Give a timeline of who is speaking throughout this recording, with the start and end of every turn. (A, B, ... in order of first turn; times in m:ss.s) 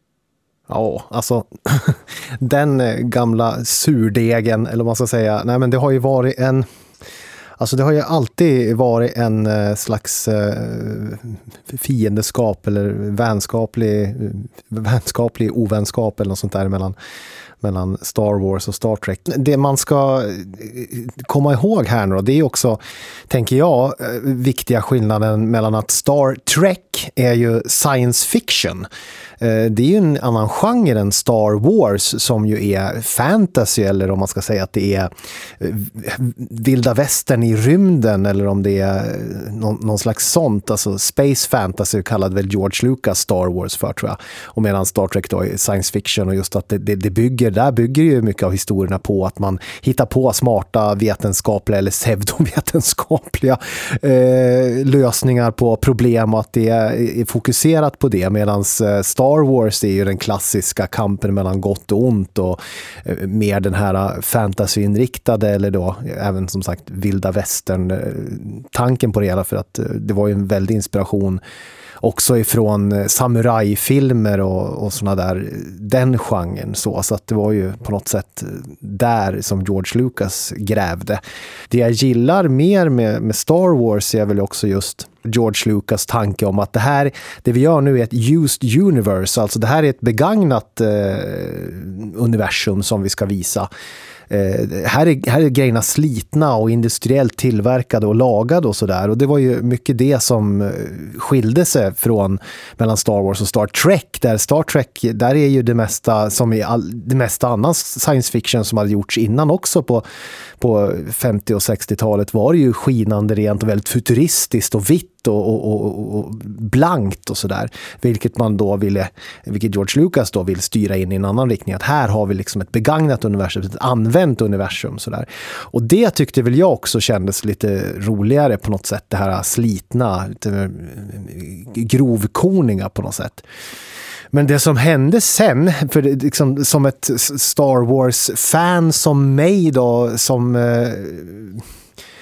0:00.7-0:06.6 A
0:07.6-0:16.9 A
0:17.6-0:28.9 A
0:29.4-1:11.4 A
1:12.0-1:33.7 A
1:34.3-1:50.0 A
1:50.6-2:13.4 A
2:14.3-2:21.6 A